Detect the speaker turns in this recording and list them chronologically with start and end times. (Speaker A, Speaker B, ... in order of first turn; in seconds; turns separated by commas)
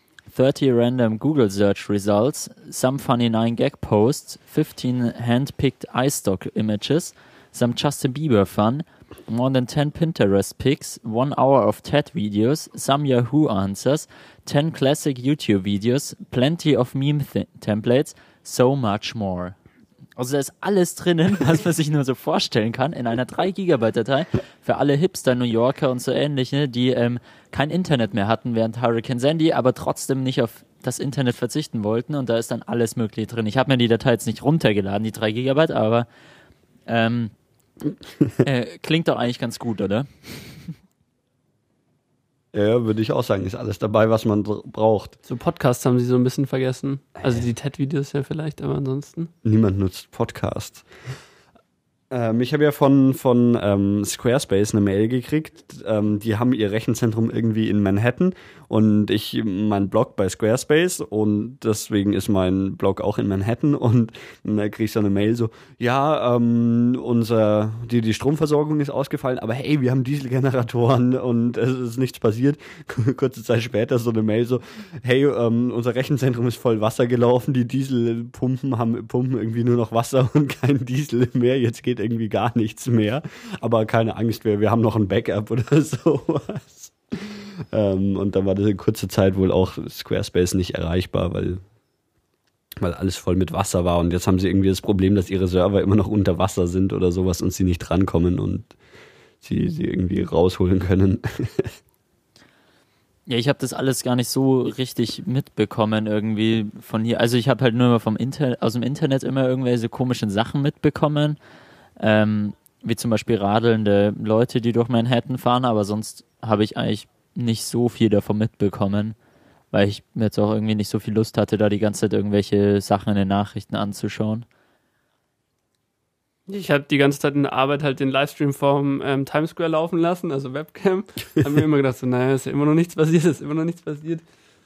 Speaker A: 0.3-19.6, Speaker A: 20.2-36.1, Speaker A: 36.9-37.3, Speaker A: 38.4-40.7, Speaker B: 42.5-45.1, Speaker C: 45.3-49.3, Speaker B: 49.4-50.9, Speaker B: 52.1-91.6, Speaker B: 92.8-98.7, Speaker B: 99.4-101.7, Speaker A: 103.3-111.4, Speaker A: 112.0-119.1, Speaker A: 119.7-124.5, Speaker C: 126.5-134.2